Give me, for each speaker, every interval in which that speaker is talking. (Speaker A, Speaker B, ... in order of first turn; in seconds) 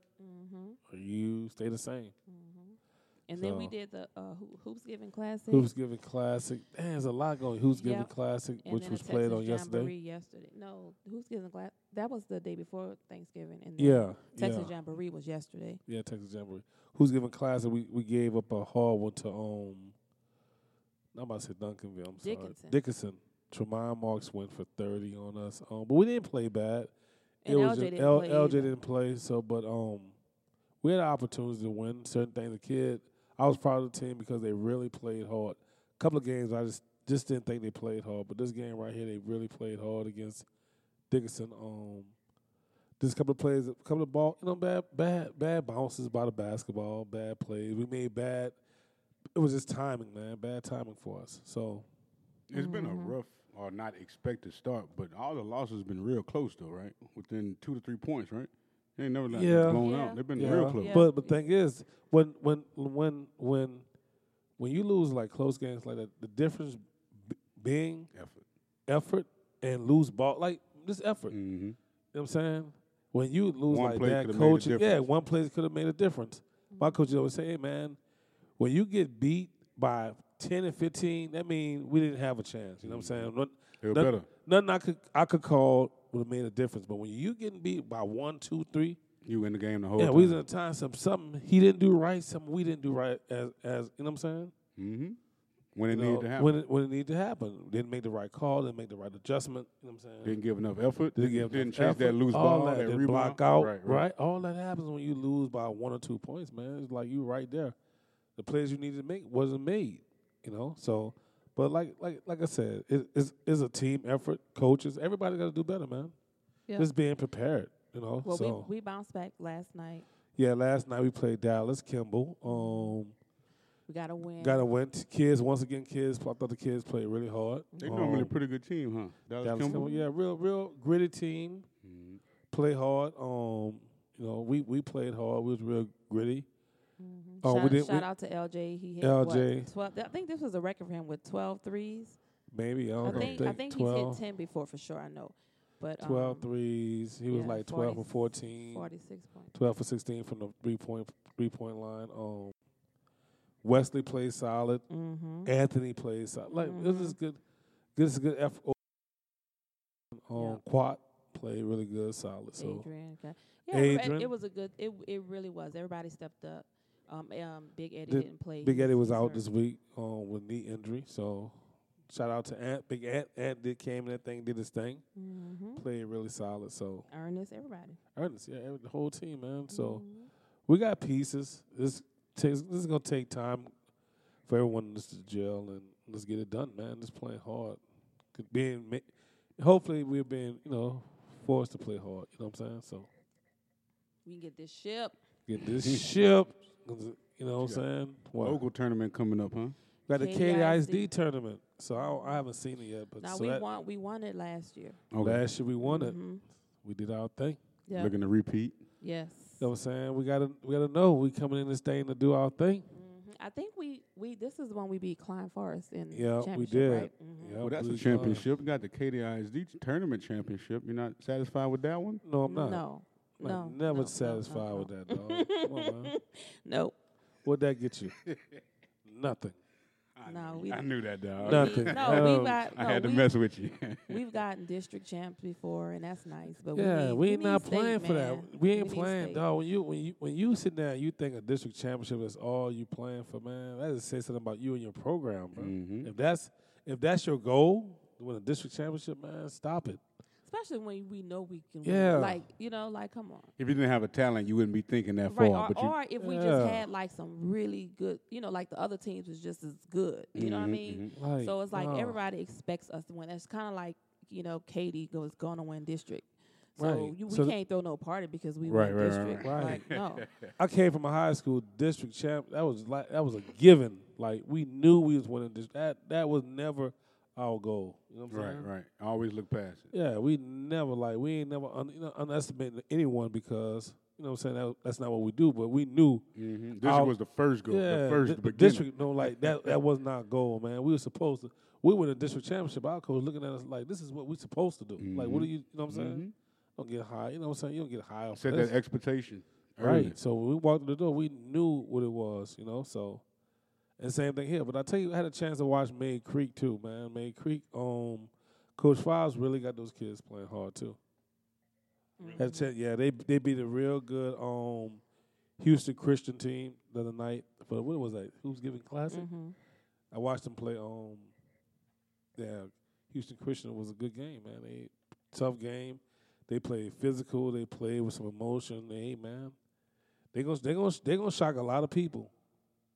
Speaker A: 0.2-0.8, 2.3-5.7, 7.7-8.1, 8.6-15.8, 22.2-22.8, 27.4-28.7, 52.5-53.1, 59.7-61.4, 76.7-77.0, 118.2-120.0, 122.5-123.0, 123.9-124.7, 127.7-128.0, 129.6-130.1, 137.0-142.2, 143.0-146.5, 147.3-149.5, 154.9-155.5, 156.5-157.2, 160.3-160.6, 162.6-169.5, 175.2-175.8, 177.1-178.0, 179.7-180.3, 194.2-195.2, 200.1-201.1, 201.9-202.4, 203.2-205.0, 205.8-206.4, 207.9-208.1, 209.0-209.7, 212.9-217.6, 222.4-226.9, 230.2-230.9, 231.4-233.3, 234.1-239.4, 250.4-253.5, 255.3-270.3, 312.2-312.7, 319.1-319.5
Speaker B: 0.9-2.1, 3.4-3.7, 5.5-9.9, 13.8-14.7, 15.9-19.9, 21.1-26.9, 27.4-30.1, 30.8-40.5, 41.1-42.1, 43.0-48.6, 49.4-51.9, 59.3-63.9, 64.6-68.1, 68.9-71.3, 72.1-78.0, 78.6-89.0, 90.0-94.5, 95.9-100.4, 101.1-107.8, 108.4-116.1, 116.8-118.7, 120.4-123.1, 124.4-128.3, 129.4-131.7, 132.5-136.5, 137.4-138.1, 139.0-139.7, 142.5-144.2, 146.0-148.9, 149.5-152.5, 153.6-154.8, 155.4-157.4, 157.9-158.8, 160.1-162.9, 163.7-164.3, 168.1-175.0, 175.8-177.1, 178.1-180.0, 180.7-183.7, 184.4-187.8, 188.3-193.1, 195.5-198.6, 200.1-203.6, 205.2-206.2, 206.8-207.6, 209.6-212.9, 216.1-218.5, 222.2-222.8, 223.4-226.1, 227.4-228.2, 229.0-229.6, 231.4-232.6, 236.7-250.0, 251.8-252.4, 256.2-256.9, 261.1-262.2, 266.8-267.6, 269.4-269.8, 270.6-278.7, 279.9-286.2, 286.8-287.1, 287.7-296.2, 296.8-298.7, 299.8-303.2, 304.0-311.0, 312.4-315.0, 315.6-319.3, 320.1-321.3, 322.4-329.5, 330.3-332.3
Speaker C: 52.5-61.0, 68.1-68.4, 71.3-71.8, 73.7-75.0, 82.8-83.3, 83.8-84.3, 89.2-90.4, 94.8-95.2, 95.7-96.6, 100.2-104.0, 127.8-129.9, 131.8-132.2, 143.0-143.5, 195.8-196.0, 198.4-199.8, 205.1-205.4, 207.9-208.8, 217.6-222.2, 228.2-228.6, 230.2-234.2, 245.6-246.1, 253.6-255.9, 260.4-261.1, 268.7-270.5, 278.3-279.9, 286.4-289.7, 295.0-296.3, 298.3-300.1